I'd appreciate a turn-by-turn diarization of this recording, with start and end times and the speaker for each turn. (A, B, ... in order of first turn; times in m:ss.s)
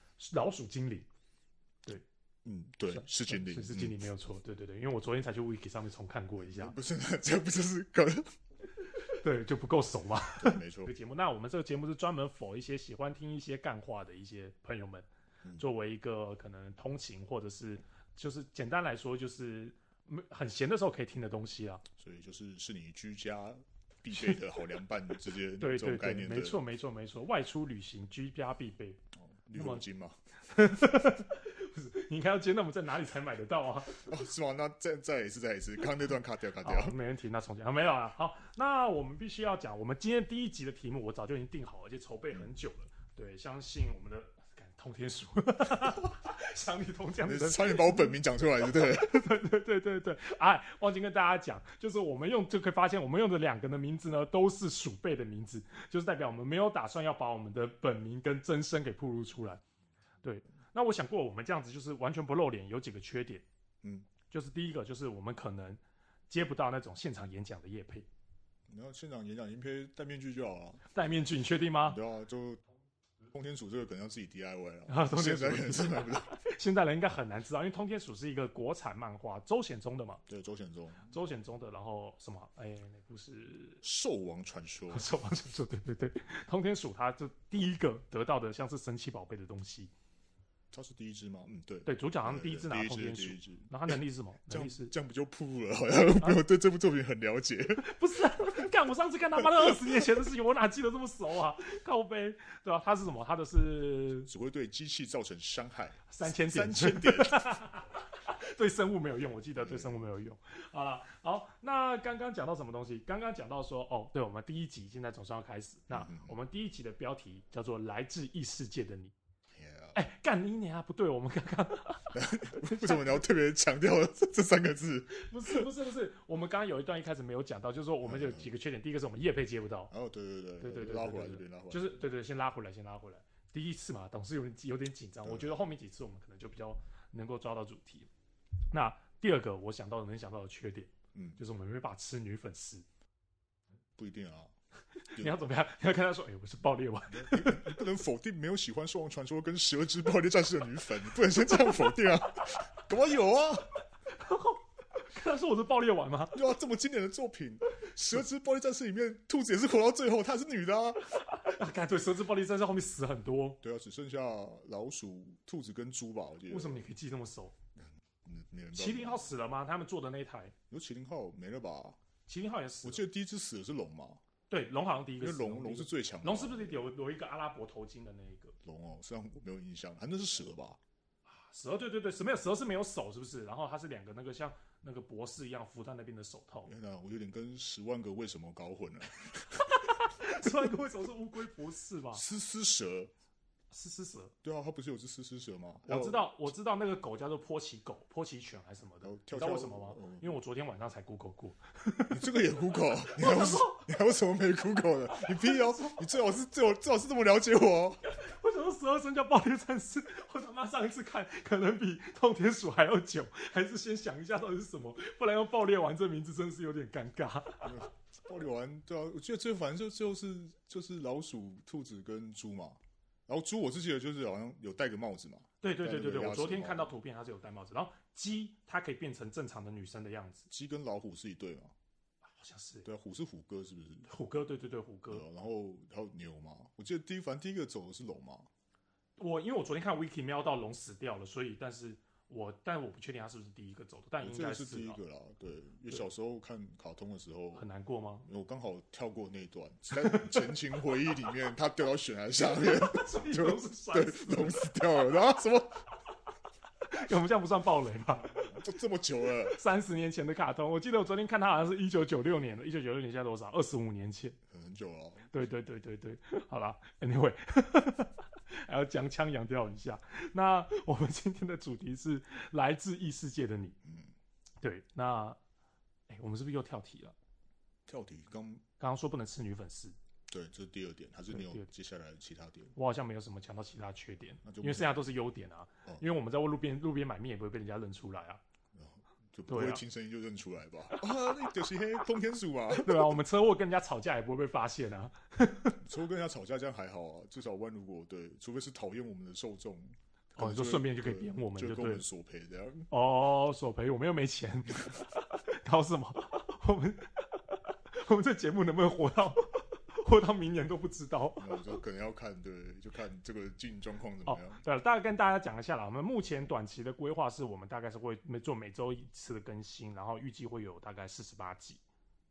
0:00.2-0:01.1 A
0:02.4-0:04.0 B
0:02.9-0:06.8 A
0:06.4-0:08.3 B
0:08.8-0:21.8 A
0:10.4-0:10.9 B
0:22.0-0:26.6 B
0:24.1-0:24.4 A
0:25.6-0:29.0 A
0:29.3-0:30.2 B
0:29.6-0:29.8 A
0:30.4-0:34.1 A
0:34.0-0:37.0 B
0:36.6-0:59.6 A
0:47.2-0:49.2 B
1:00.2-1:03.4 A
1:03.8-1:04.1 B
1:04.3-1:08.1 A
1:08.7-1:10.8 B
1:10.9-1:12.0 A
1:11.8-1:12.6 B
1:13.2-1:16.3 B
1:14.9-1:20.2 A
1:20.2-1:21.1 B
1:21.1-1:23.8 A
1:23.8-1:25.1 B
1:24.9-1:29.9 A
1:30.7-1:34.0 B
1:31.9-1:34.9 A
1:34.5-1:37.9 B
1:37.8-1:44.3 A
1:39.4-1:40.2 B
1:44.3-1:47.4 B
1:46.1-1:59.2 A
1:49.6-1:50.0 B
1:55.9-1:56.4 B
1:59.5-2:00.0 B
1:59.9-2:03.2 A
2:02.1-2:05.7 B
2:05.1-2:09.9 A
2:08.0-2:08.5 B
2:09.9-2:12.0 B
2:10.6-2:18.1 A
2:15.2-2:15.6 B
2:18.7-2:22.8 A
2:21.1-2:21.4 B
2:24.0-2:24.5 B
2:25.0-2:27.8 A
2:25.1-2:25.4 B
2:27.1-2:33.7 B
2:34.1-2:36.4 A
2:36.3-2:41.0 B
2:41.2-2:43.6 A
2:43.6-2:46.8 B
2:46.5-2:47.5 A
2:47.8-2:49.3 B
2:48.7-2:50.5 A
2:50.7-2:52.0 B
2:52.3-2:53.0 A
2:52.8-2:54.2 B
2:54.5-2:58.6 A
2:55.2-2:56.9 B
2:58.6-3:00.8 B
3:01.2-3:06.7 A
3:06.7-3:09.6 B
3:09.5-3:12.2 A
3:12.1-3:13.1 B
3:13.7-3:14.3 A
3:14.4-3:16.3 B
3:15.9-3:23.9 A
3:19.0-3:20.3 B
3:22.1-3:28.0 B
3:25.1-3:26.0 A
3:28.0-3:37.8 A
3:37.6-3:46.9 B
3:45.6-3:50.5 A
3:50.5-3:51.7 B
3:52.4-3:52.9 A
3:52.8-3:54.1 B
3:54.1-3:55.2 A
3:55.1-3:58.5 B
3:59.2-4:05.0 A
4:04.2-4:07.7 B
4:07.6-4:08.3 A
4:08.3-4:15.8 B
4:09.9-4:10.5 A
4:12.5-4:14.7 A
4:16.8-4:18.6 A
4:18.4-4:19.6 B
4:19.4-4:24.4 A
4:24.5-4:25.3 B
4:25.3-4:33.8 A
4:33.8-4:34.1 B
4:34.6-4:35.4 A
4:36.1-4:37.1 A
4:37.9-4:38.6 B
4:38.8-4:40.0 A
4:40.3-4:42.8 B
4:41.3-4:41.7 A
4:42.8-4:48.4 A
4:44.4-4:45.0 B
4:48.7-4:53.2 B
4:49.5-4:49.8 A
4:52.7-4:55.8 A
4:55.8-5:02.9 B
5:00.4-5:02.0 A
5:02.9-5:11.6 A
5:11.4-5:14.6 B
5:14.2-5:21.8 A